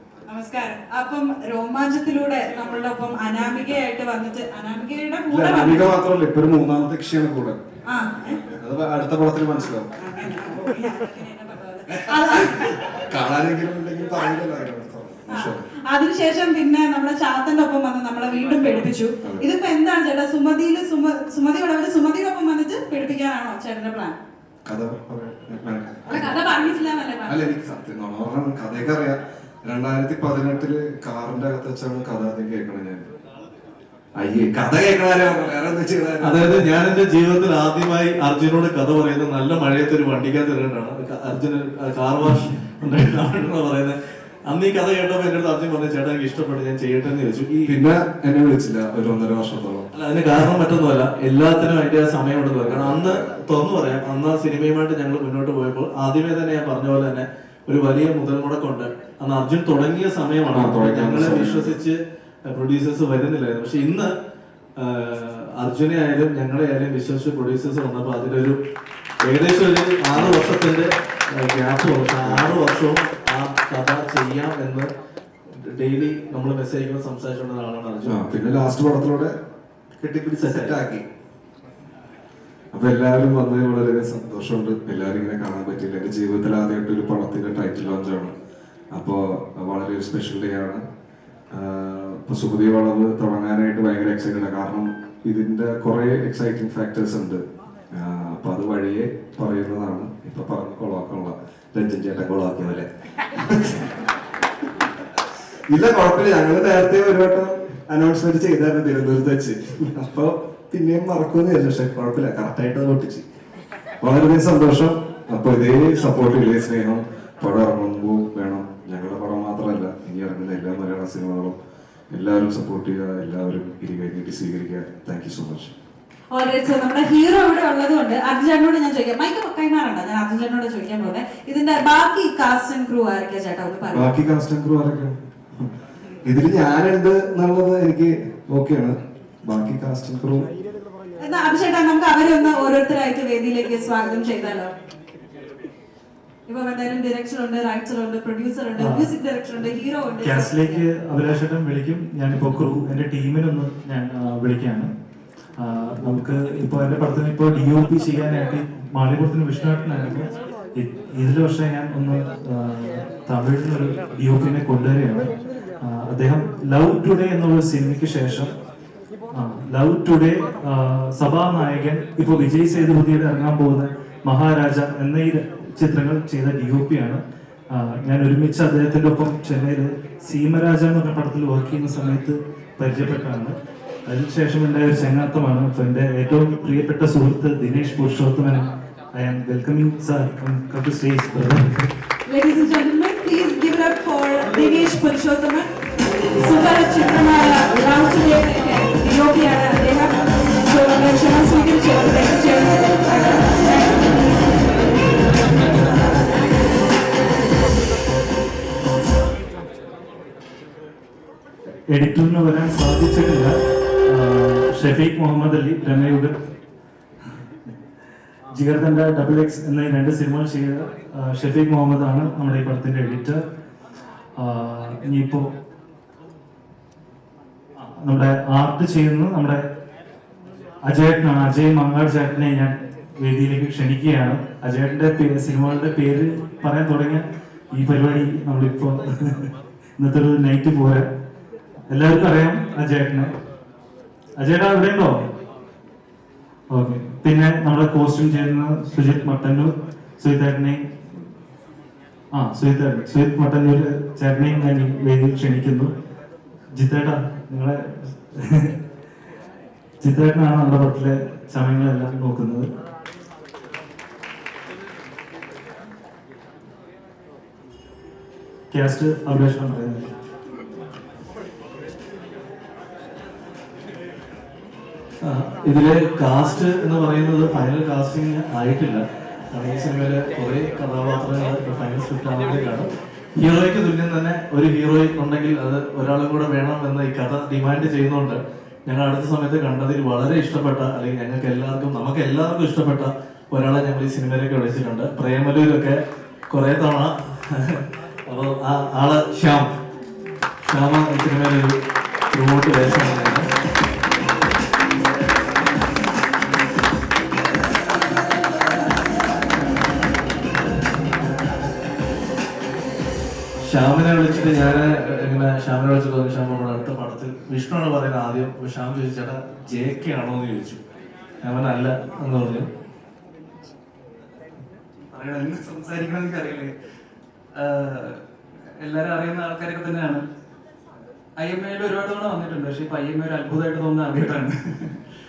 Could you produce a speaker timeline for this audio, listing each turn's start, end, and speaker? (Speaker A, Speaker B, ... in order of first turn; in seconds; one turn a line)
Speaker A: 0.3-6.0
Speaker B: 5.3-7.6
Speaker A: 7.9-8.4
Speaker B: 8.3-9.9
Speaker A: 10.0-13.0
Speaker B: 11.9-15.7
Speaker A: 15.3-24.2
Speaker B: 24.7-26.4
Speaker A: 26.1-27.4
Speaker B: 27.3-33.1
Speaker B: 34.2-36.7
Speaker C: 36.2-44.0
Speaker C: 44.5-47.8
Speaker B: 47.7-49.9
Speaker C: 49.9-64.1
Speaker B: 52.6-53.2
Speaker B: 60.5-61.8
Speaker C: 64.8-68.6
Speaker C: 69.2-74.9
Speaker B: 70.1-70.6
Speaker B: 72.2-72.6
Speaker C: 75.6-78.3
Speaker B: 78.1-79.4
Speaker B: 80.0-81.0
Speaker C: 80.4-80.8
Speaker B: 82.7-88.3
Speaker B: 88.9-90.8
Speaker B: 91.5-97.4
Speaker B: 97.9-104.0
Speaker B: 105.7-113.2
Speaker B: 114.0-121.5
Speaker B: 122.1-125.7
Speaker A: 126.3-134.1
Speaker B: 133.9-135.7
Speaker B: 136.2-140.5
Speaker A: 141.2-144.7
Speaker A: 146.5-150.9
Speaker D: 148.8-149.1
Speaker D: 150.2-154.9
Speaker D: 155.6-168.5
Speaker D: 169.3-177.2
Speaker D: 177.7-183.6
Speaker D: 184.1-191.9
Speaker A: 192.3-195.7
Speaker A: 196.4-204.2
Speaker D: 211.9-216.3
Speaker D: 218.5-223.4
Speaker D: 224.4-225.5
Speaker D: 227.8-229.6
Speaker D: 230.8-241.1
Speaker D: 241.9-243.3
Speaker D: 244.4-245.2
Speaker D: 246.7-250.9
Speaker D: 252.3-255.9
Speaker D: 256.8-258.7
Speaker D: 260.0-262.7
Speaker D: 268.7-270.1
Speaker C: 275.2-299.7
Speaker C: 300.6-301.8
Speaker C: 302.3-303.5
Speaker C: 313.6-320.8
Speaker C: 321.4-322.7
Speaker E: 325.1-326.7
Speaker E: 327.5-328.2
Speaker E: 328.8-330.2
Speaker E: 331.4-334.9